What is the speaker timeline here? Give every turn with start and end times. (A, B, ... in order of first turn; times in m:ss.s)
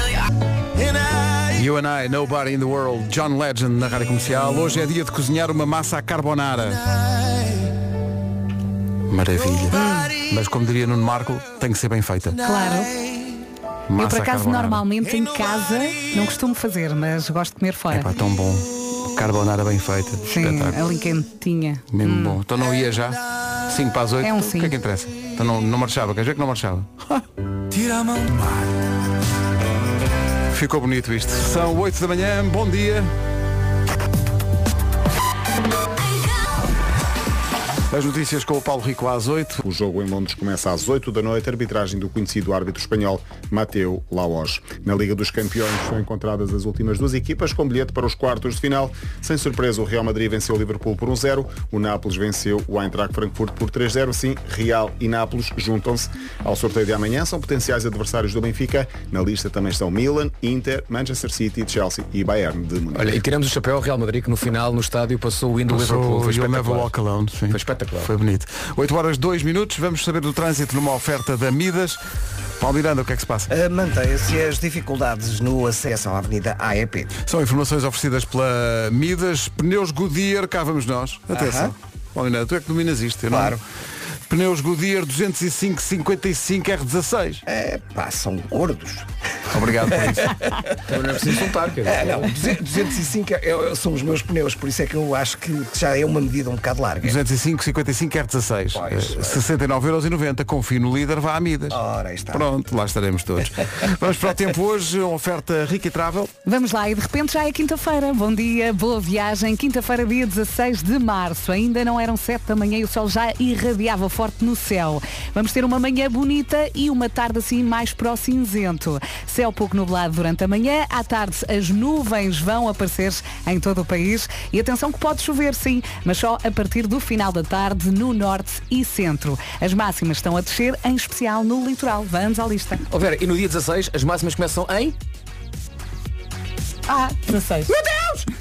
0:01.5-0:06.8 A
0:09.1-0:12.4 A
0:09.7-0:10.1 B
0:12.4-0:13.0 B
0:13.9-0:14.8 A
0:14.0-0:18.1 B
0:17.9-0:20.8 A
0:20.2-0:22.4 B
0:21.9-0:27.2 A
0:24.2-0:24.7 B
0:30.5-0:33.1 A
0:37.9-0:39.6 A
0:39.6-1:03.2 C
1:02.9-1:06.9 D
1:05.7-1:12.0 A
1:07.5-1:08.1 D
1:12.6-1:13.5 A
1:13.5-1:17.1 E
1:17.2-1:23.6 A
1:21.3-1:21.7 E
1:23.3-1:23.6 E
1:24.3-1:27.4 A
1:27.4-1:29.1 E
1:29.5-1:30.4 A
1:29.9-1:30.5 E
1:30.8-1:32.5 D
1:31.8-1:37.2 E
1:37.0-1:46.3 A
1:38.7-1:39.4 E
1:41.7-1:42.5 E
1:46.4-2:12.8 B
2:12.9-2:15.0 D
2:16.9-2:18.3 B